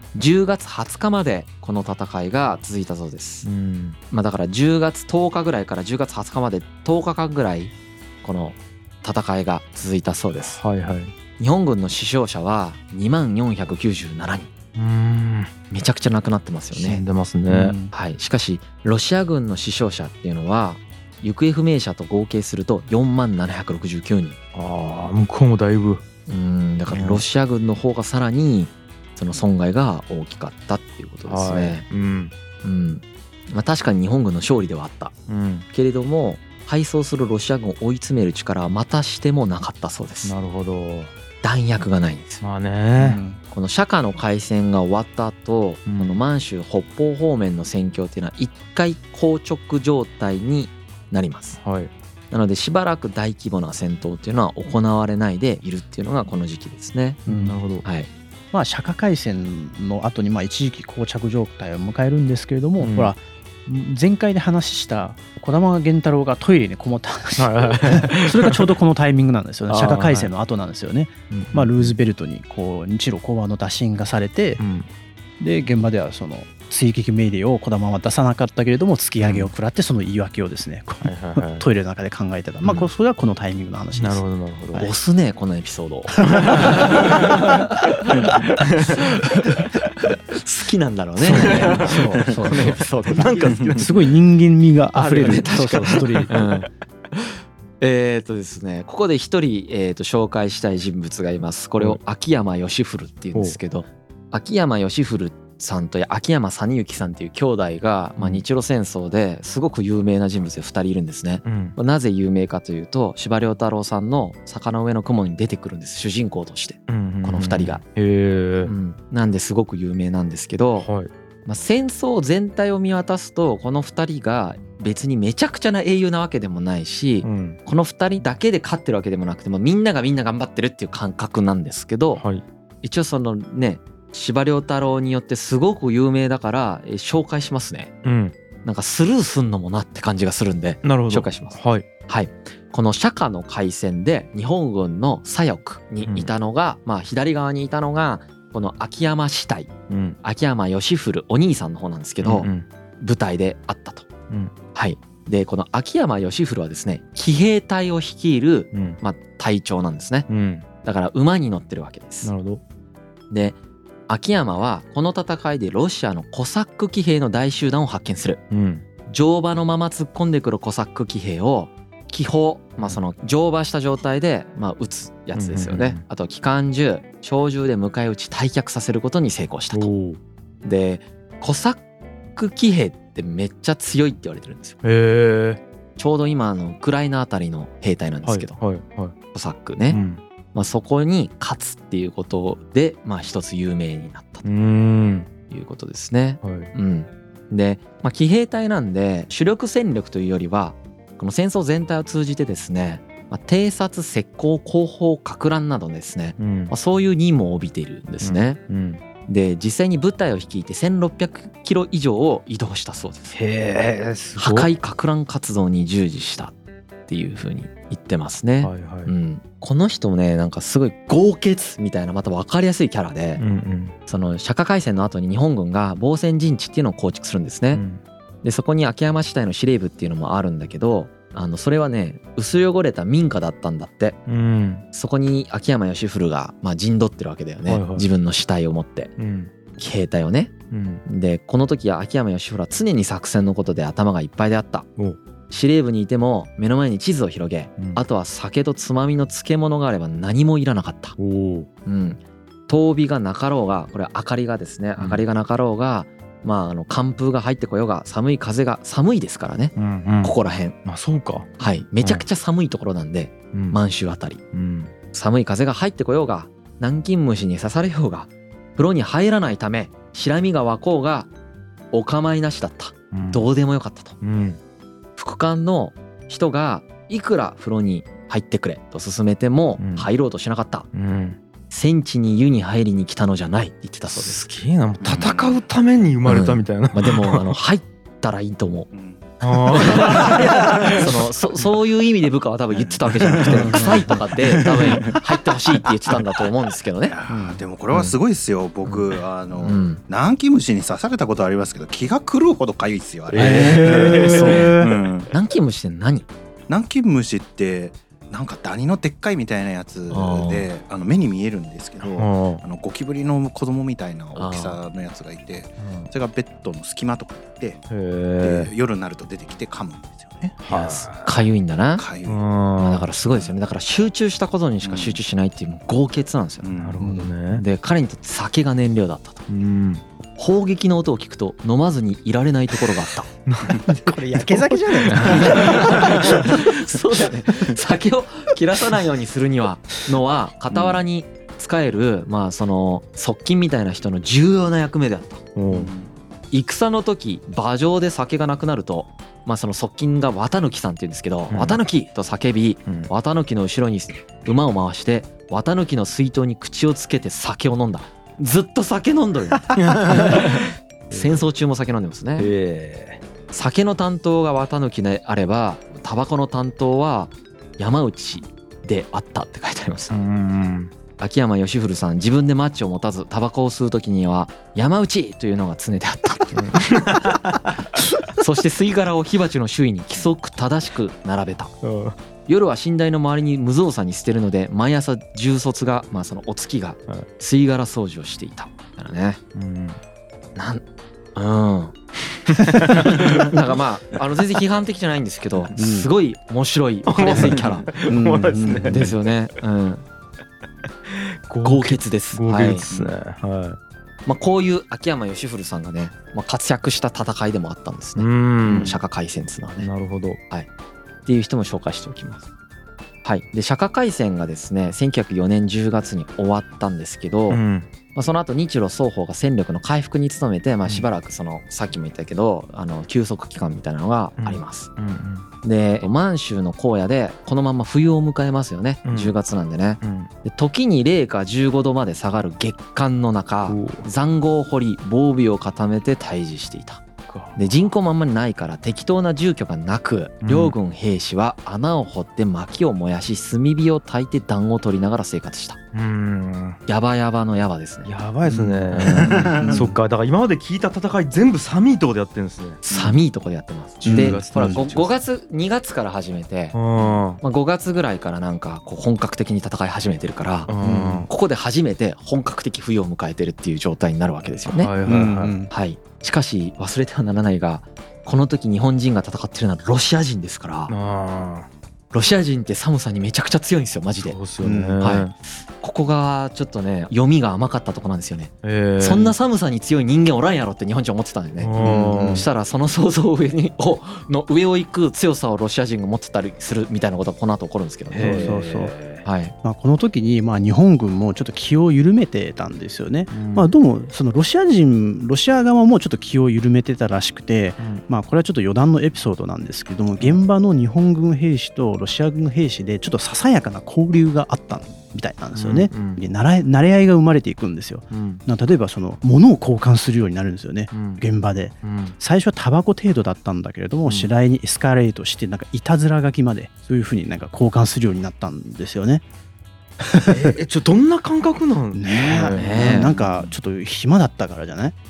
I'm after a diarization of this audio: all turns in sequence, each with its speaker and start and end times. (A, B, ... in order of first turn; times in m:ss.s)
0:00.2-0:03.5 A
0:03.4-0:04.0 B
0:04.1-0:10.6 A
0:10.6-0:11.1 B
0:11.4-0:14.5 A
0:14.8-0:15.5 B
0:15.7-0:17.0 A
0:16.8-0:17.8 B
0:17.5-0:17.9 C
0:17.9-0:24.4 A
0:24.5-0:26.0 B
0:26.3-0:31.8 A
0:26.9-0:27.2 B
0:31.3-0:32.3 B
0:32.6-0:35.2 A
0:35.3-0:35.7 B
0:35.7-0:40.3 A
0:40.2-0:41.1 B
0:41.4-0:42.4 A
0:42.4-0:43.2 B
0:43.0-0:43.4 C
0:43.5-0:51.6 A
0:45.9-0:46.2 B
0:51.6-0:51.9 B
0:52.3-0:57.2 A
0:57.3-0:57.9 B
0:57.3-0:57.6 C
0:58.5-1:14.6 C
1:02.8-1:03.1 B
1:07.4-1:08.7 B
1:09.7-1:10.3 B
1:11.3-1:12.0 B
1:14.6-1:14.9 B
1:15.4-1:24.9 C
1:19.2-1:19.5 B
1:21.0-1:21.7 B
1:22.6-1:22.9 B
1:24.0-1:24.9 B
1:24.8-1:29.7 A
1:26.3-1:27.3 C
1:26.4-1:26.8 B
1:30.4-1:33.7 A
1:31.2-1:32.9 C
1:31.3-1:34.0 B
1:33.7-1:36.4 C
1:34.9-1:36.7 A
1:36.3-1:36.6 B
1:37.8-1:57.8 A
1:43.3-1:43.6 B
1:48.2-1:48.4 B
1:51.4-1:51.8 B
1:56.9-1:58.7 B
1:58.6-2:00.9 A
2:00.8-2:01.1 B
2:01.5-2:12.2 A
2:07.2-2:07.6 B
2:12.2-2:12.4 B
2:12.8-2:17.9 A
2:18.0-2:18.3 B
2:18.6-2:29.7 A
2:20.8-2:21.9 B
2:26.0-2:26.3 B
2:29.9-2:30.2 B
2:30.2-2:32.5 A
2:32.2-2:32.7 B
2:33.0-2:34.1 A
2:34.7-2:40.3 A
2:38.7-2:39.0 B
2:40.3-2:40.7 B
2:40.8-2:42.3 A
2:42.2-2:42.6 B
2:43.3-2:43.6 A
2:44.1-2:48.4 A
2:48.5-2:48.8 B
2:49.1-2:59.9 A
2:55.4-2:56.0 B
2:59.7-3:00.2 B
3:00.6-3:01.8 A
3:02.3-3:04.8 A
3:04.8-3:05.6 B
3:06.0-3:08.6 A
3:08.2-3:09.1 B
3:09.3-3:10.0 A
3:09.9-3:10.2 B
3:10.5-3:14.5 A
3:14.4-3:15.3 B
3:15.5-3:28.6 A
3:16.4-3:16.7 B
3:26.4-3:26.8 B
3:28.2-3:29.0 B
3:29.3-3:33.4 A
3:33.3-3:34.7 B
3:34.4-3:36.6 A
3:37.1-3:43.4 A
3:38.6-3:39.1 B
3:43.4-3:44.0 B
3:44.1-3:47.8 A
3:47.7-3:48.0 B
3:48.4-3:54.2 A
3:54.3-3:54.8 B
3:54.9-3:59.1 A
3:57.6-3:58.1 B
3:59.2-3:59.5 B
3:59.8-4:00.5 A
4:00.7-4:01.0 B
4:01.1-4:04.9 A
4:05.5-4:11.2 A
4:11.2-4:11.7 B
4:11.9-4:20.8 A
4:15.0-4:15.2 B
4:19.8-4:22.2 B
4:21.6-4:24.4 A
4:23.5-4:23.8 B
4:24.5-4:24.9 B
4:25.1-4:31.3 A
4:31.9-4:34.2 A
4:33.1-4:33.5 B
4:34.2-4:34.6 B
4:35.2-4:40.9 A
4:39.8-4:40.1 B
4:40.9-4:41.4 B
4:41.7-4:44.4 A
4:44.1-4:47.6 B
4:45.0-4:45.6 D
4:46.3-4:48.9 A
4:48.9-4:51.1 D
4:49.4-4:51.1 B
4:49.8-4:57.2 A
4:52.8-4:56.4 D
4:53.5-4:54.2 C
4:57.0-5:05.3 D
4:57.3-4:57.6 C
4:57.9-4:58.2 A
4:59.6-5:00.0 A
5:03.3-5:04.8 B
5:03.4-5:05.0 C
5:05.3-5:06.3 A
5:06.7-5:17.8 D
5:10.1-5:10.7 A
5:12.0-5:12.6 B
5:14.4-5:14.8 A
5:15.8-5:16.1 B
5:17.9-5:18.7 B
5:18.4-5:21.1 D
5:20.6-5:21.3 B
5:21.2-5:22.1 A
5:22.0-5:22.4 D
5:22.2-5:23.1 B
5:22.8-5:26.7 A
5:23.2-5:23.6 D
5:24.8-5:25.2 D
5:26.6-5:27.2 D
5:26.8-5:27.6 B
5:27.0-5:27.4 C
5:27.5-5:29.5 A
5:29.5-5:30.0 B
5:30.4-5:33.3 A
5:33.5-5:36.4 B
5:33.8-5:36.7 C
5:35.6-5:45.4 A
5:45.6-5:45.9 B
5:45.7-5:46.1 D
5:46.5-6:02.5 A
5:51.5-5:51.8 B
5:59.5-6:01.4 B
6:02.4-6:03.2 B
6:03.5-6:10.1 A
6:10.1-6:10.9 B
6:11.2-6:17.3 A
6:16.5-6:17.7 B
6:18.3-6:21.8 A
6:21.8-6:22.2 B
6:22.5-6:29.4 A
6:29.6-6:30.0 B
6:30.6-6:30.8 A
6:31.4-6:32.0 A
6:32.7-6:37.9 A
6:32.7-6:33.5 B
6:35.8-6:36.1 C
6:37.1-6:39.2 B
6:37.3-6:39.1 C
6:38.9-6:40.0 A
6:41.1-6:43.8 B
6:41.6-6:42.9 A
6:44.3-6:49.9 A
6:48.2-6:49.0 B
6:48.6-6:49.0 C
6:49.8-6:50.4 B
6:51.3-6:52.5 A
6:53.2-6:57.6 A
6:57.5-6:57.9 B
6:58.1-7:04.9 A
7:04.4-7:05.5 B
7:05.6-7:17.0 A
7:09.0-7:09.4 B
7:10.0-7:10.3 B
7:13.7-7:14.1 B
7:17.3-7:17.9 B
7:17.6-7:25.8 A
7:20.4-7:20.8 B
7:25.9-7:26.8 B
7:26.9-7:28.1 A
7:28.0-7:33.2 B
7:29.0-7:29.9 D
7:29.0-7:30.0 C
7:32.8-7:36.8 A
7:34.0-7:34.8 C
7:34.0-7:35.1 B
7:36.7-7:37.4 B
7:37.3-7:40.7 A
7:40.7-7:41.3 B
7:40.8-7:41.3 C
7:41.3-7:44.9 A
7:44.7-7:45.6 B
7:45.0-7:45.7 C
7:45.7-7:50.9 A
7:50.9-7:51.7 B
7:52.1-7:54.4 A
7:54.2-7:55.3 B
7:54.6-7:55.1 C
7:55.0-8:08.5 A
7:58.6-7:59.4 B
8:01.6-8:02.5 B
8:01.8-8:02.5 C
8:08.1-8:09.2 B
8:08.2-8:09.0 C
8:09.2-8:09.5 A
8:09.6-8:39.2 C
8:13.3-8:13.7 B
8:17.8-8:18.0 B
8:25.5-8:26.2 B
8:28.1-8:28.4 B
8:30.9-8:31.2 B
8:31.8-8:32.2 B
8:40.0-8:40.5 C
8:40.3-8:43.5 B
8:41.9-8:45.0 C
8:42.5-8:43.2 A